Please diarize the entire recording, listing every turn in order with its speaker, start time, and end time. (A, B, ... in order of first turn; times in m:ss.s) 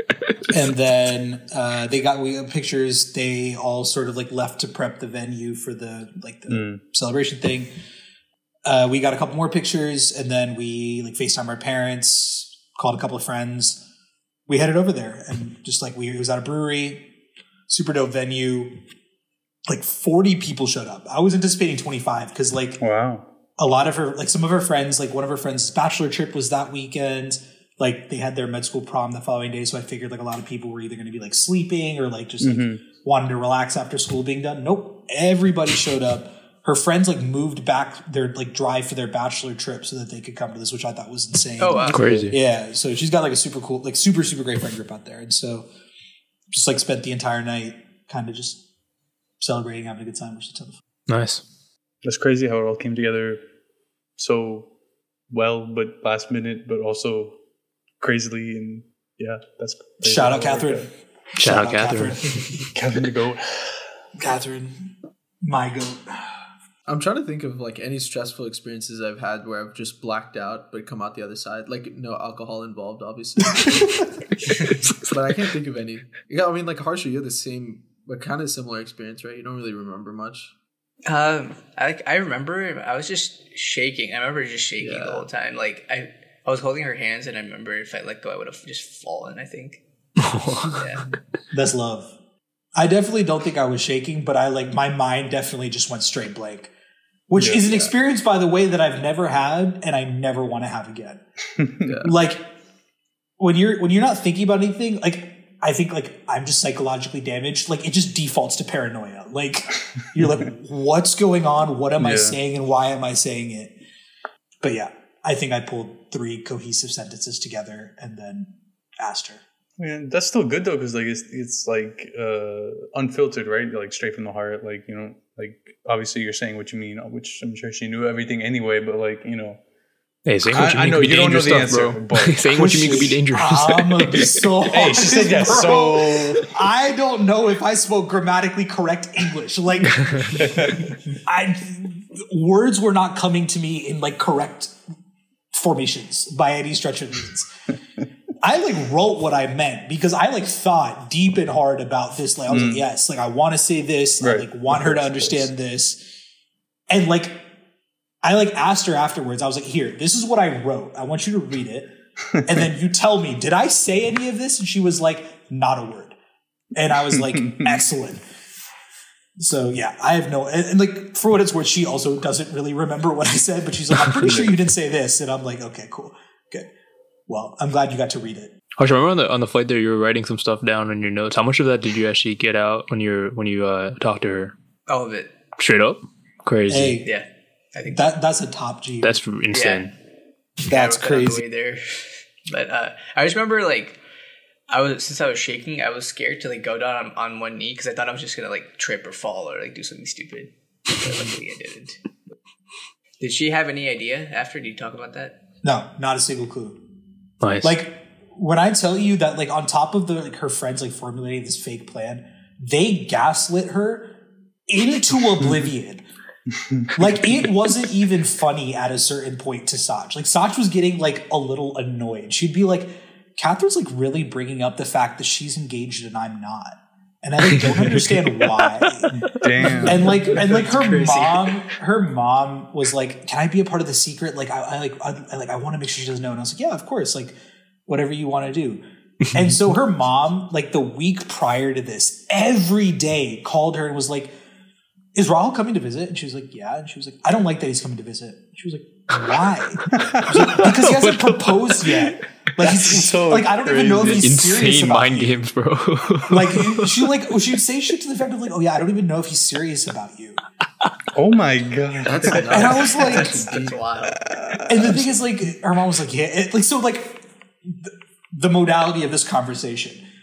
0:00.5-0:07.7 A
0:06.5-0:06.8 B
0:08.6-0:13.8 A
0:14.5-0:17.1 A
0:17.7-0:18.8 A
0:19.7-0:22.8 A
0:22.8-0:23.3 B
0:23.6-0:45.7 A
0:32.4-0:32.8 B
0:41.6-0:42.3 C
0:41.9-0:42.3 D
0:46.5-0:48.6 A
0:49.4-0:50.8 A
0:51.1-0:51.4 D
0:52.0-0:53.4 B
0:54.2-0:54.7 B
0:55.3-0:57.4 B
0:58.0-1:00.9 B
1:00.0-1:02.6 A
1:01.4-1:02.5 D
1:02.5-1:03.6 B
1:04.2-1:06.4 A
1:06.9-1:14.0 E
1:15.0-1:20.5 E
1:21.0-1:29.8 C
1:24.8-1:25.3 E
1:30.2-1:30.8 D
1:30.7-1:31.1 C
1:31.5-1:32.1 A
1:32.8-1:36.7 A
1:37.3-1:41.2 A
1:37.3-1:37.7 B
1:41.8-1:42.1 E
1:42.0-1:42.5 A
1:43.4-1:53.8 A
1:52.0-1:52.4 B
1:54.6-1:59.4 A
1:59.8-2:09.6 B
2:10.2-2:14.4 D
2:10.5-2:13.2 B
2:12.5-2:24.8 A
2:14.6-2:16.4 B
2:20.3-2:20.9 B
2:25.5-2:27.5 A
2:28.4-2:36.2 A
2:32.5-2:32.8 B
2:34.2-2:35.5 B
2:36.9-2:37.5 A
2:38.2-2:46.2 A
2:46.7-2:48.2 A
2:47.3-2:47.8 B
2:49.4-2:56.7 A
2:54.0-2:54.4 D
2:57.3-2:58.5 A
2:58.8-3:04.5 D
3:04.9-3:05.3 C
3:05.6-3:07.0 D
3:06.7-3:07.1 A
3:07.0-3:08.1 C
3:07.9-3:09.2 A
3:09.0-3:09.9 D
3:09.5-3:09.9 C
3:10.6-3:14.0 C
3:10.7-3:11.4 A
3:14.7-3:22.0 C
3:23.2-3:25.4 C
3:25.6-3:26.8 A
3:27.4-3:27.8 D
3:27.6-3:34.2 A
3:34.7-3:36.0 A
3:36.5-3:36.9 B
3:36.9-4:04.3 A
3:47.5-3:48.0 D
3:48.8-3:49.8 D
3:49.4-3:50.2 B
3:49.8-3:51.5 C
4:05.1-4:15.4 A
4:09.8-4:12.1 D
4:10.0-4:10.4 B
4:12.6-4:14.5 B
4:14.0-4:17.0 D
4:16.2-4:20.4 A
4:21.1-4:22.8 B
4:22.0-4:23.8 E
4:22.2-4:24.2 C
4:22.5-4:23.4 A
4:24.4-4:24.9 B
4:24.6-4:30.0 A